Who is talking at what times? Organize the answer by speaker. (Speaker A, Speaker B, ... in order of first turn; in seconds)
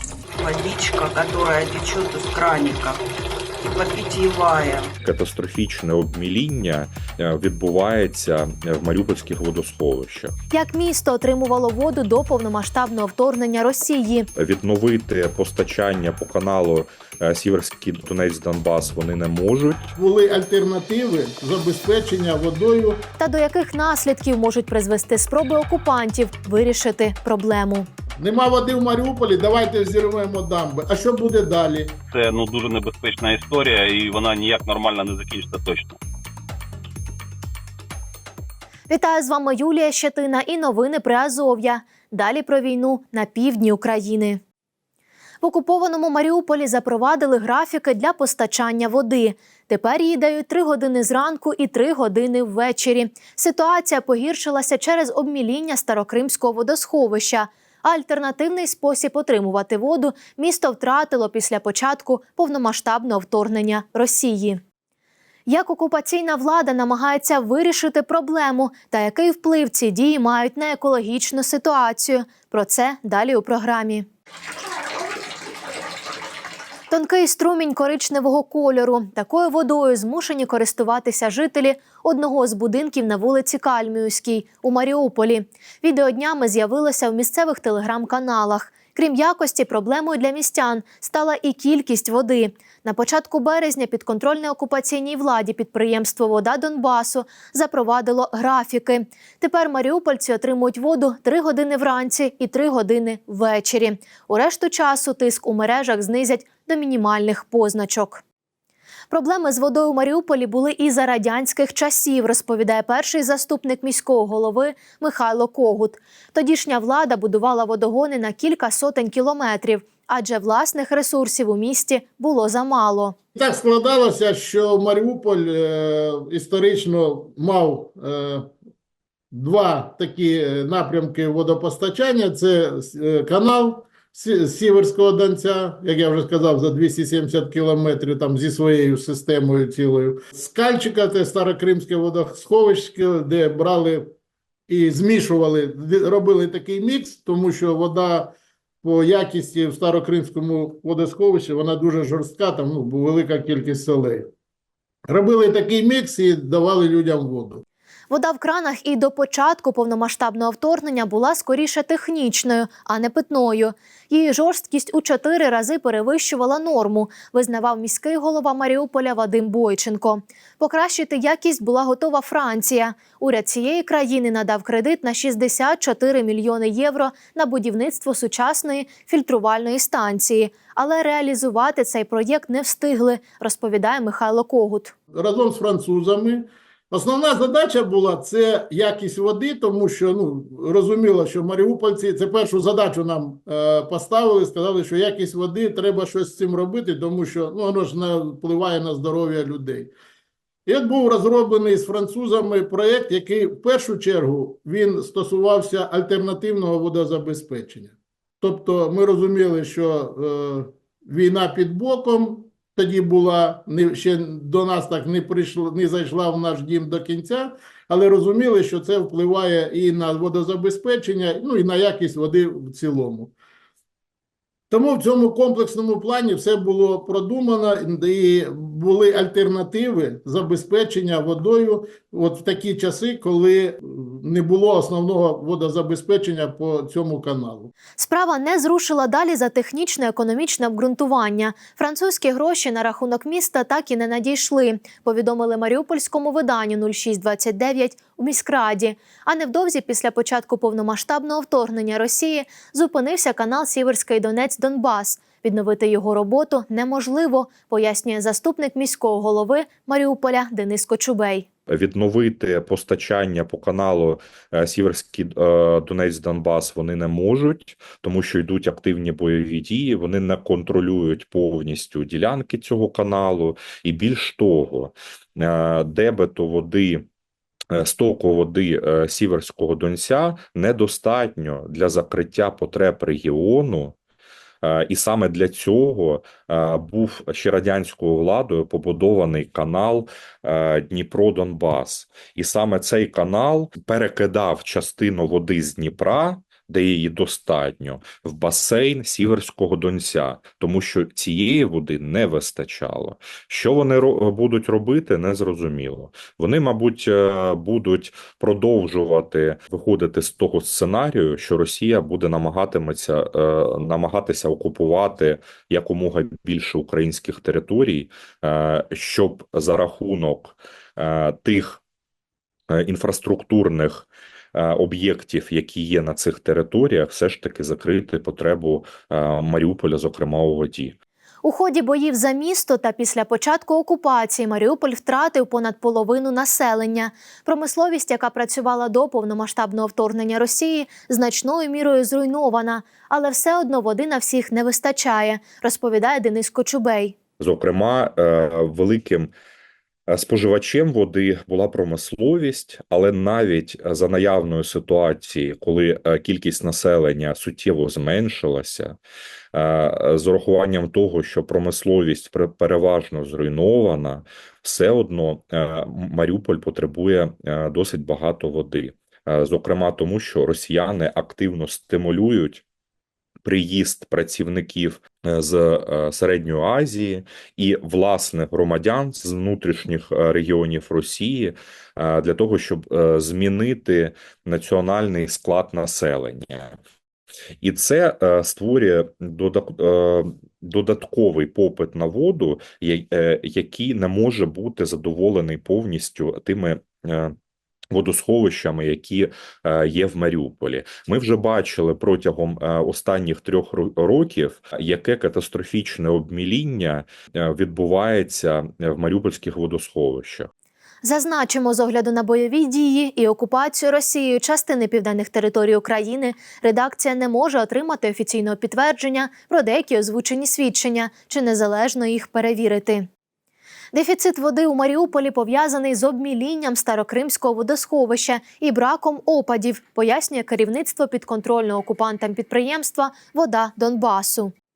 Speaker A: 0.4-3.0, 3.6-4.9
Speaker B: 5.0-10.3, 14.3-19.9, 261.7-277.1, 277.7-284.0, 284.6-321.8, 322.7-330.9, 347.4-349.3, 350.1-359.0, 359.5-372.6, 373.4-386.8, 387.6-397.3, 397.9-410.5
Speaker C: 10.5-14.3, 23.2-27.9, 38.9-44.4, 45.4-64.6, 65.5-74.0, 76.9-108.2, 109.1-123.2, 158.1-184.9, 237.9-261.5, 331.4-347.1, 411.0-423.1, 423.9-434.5
Speaker D: 19.9-23.1, 28.2-32.0, 123.3-128.5, 129.3-144.1, 144.7-154.3, 155.1-157.6, 185.1-199.9, 200.7-223.3, 224.7-237.7
Speaker E: 32.1-36.0